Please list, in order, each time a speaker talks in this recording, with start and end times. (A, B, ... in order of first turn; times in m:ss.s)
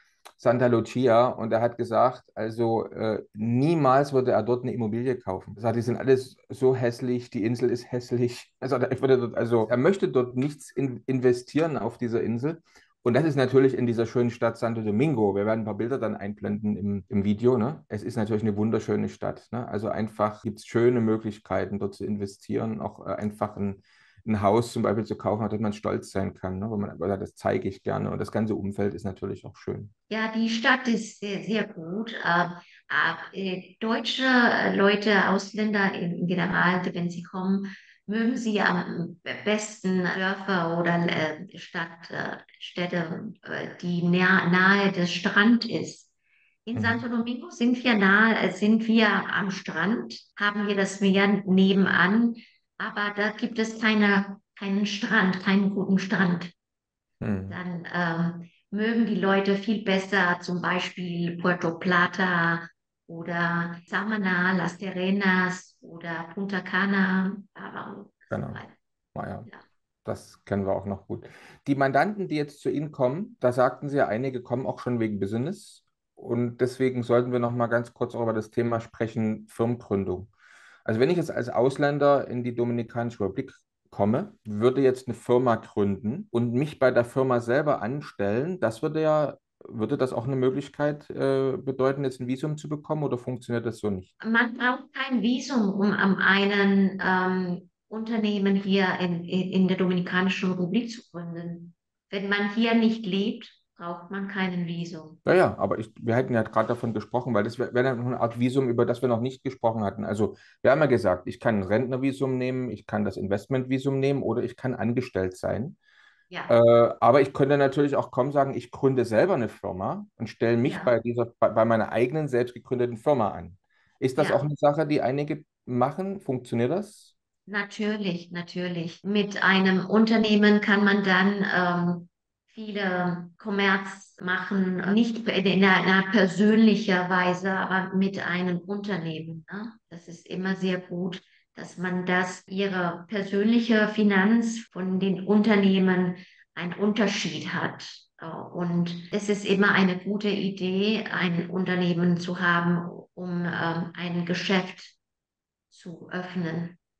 0:00.4-0:29.9 A
0:30.1-0:46.1 B
0:46.6-0:56.5 B
0:46.7-0:47.0 A
0:57.2-0:57.6 A
0:57.5-1:08.7 B
1:08.3-1:08.6 A
1:09.1-1:09.5 A
1:10.0-1:20.3 A
1:20.9-1:34.1 A
1:34.2-1:45.2 B
1:45.2-1:55.8 A
1:56.3-1:56.6 B
1:56.5-2:07.1 A
2:00.6-2:00.9 B
2:04.2-2:04.4 B
2:07.5-2:35.0 B
2:35.7-2:36.8 B